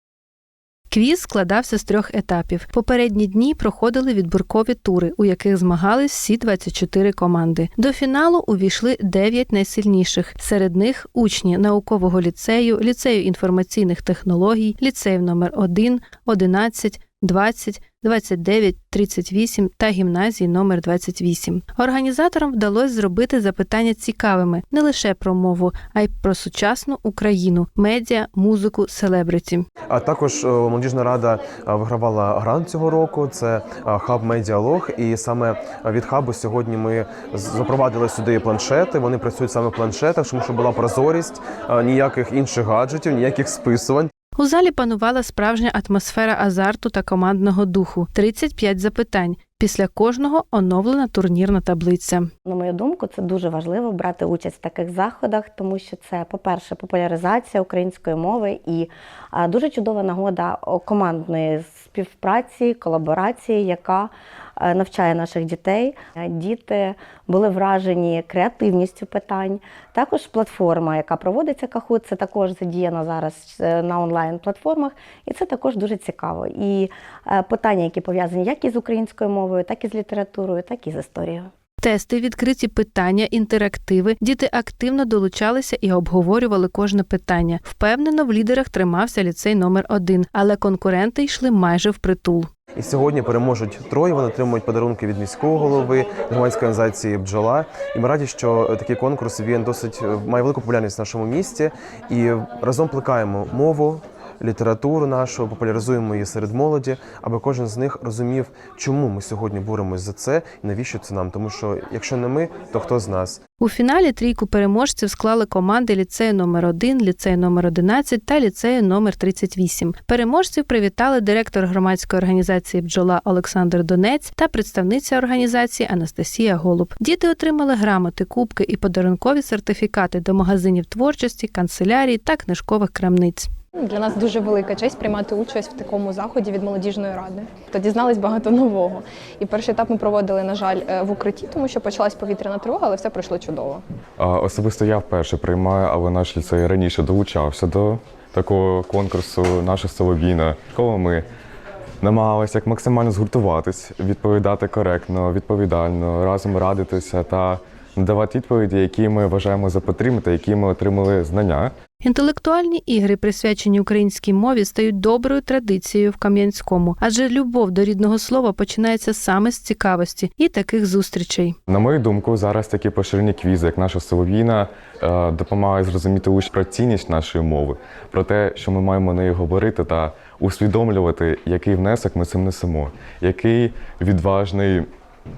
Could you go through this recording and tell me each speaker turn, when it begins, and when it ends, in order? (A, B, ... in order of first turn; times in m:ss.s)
0:00.9-0:29.6 A
0:29.9-0:44.1 B
0:44.4-0:52.3 A
0:52.4-1:21.5 C
1:21.8-1:32.5 A
1:32.8-1:53.4 B
1:53.6-2:13.5 A
2:13.8-2:23.8 D
2:24.2-2:31.2 E
2:32.0-2:41.7 E
2:42.0-2:51.6 A
2:51.7-3:04.9 E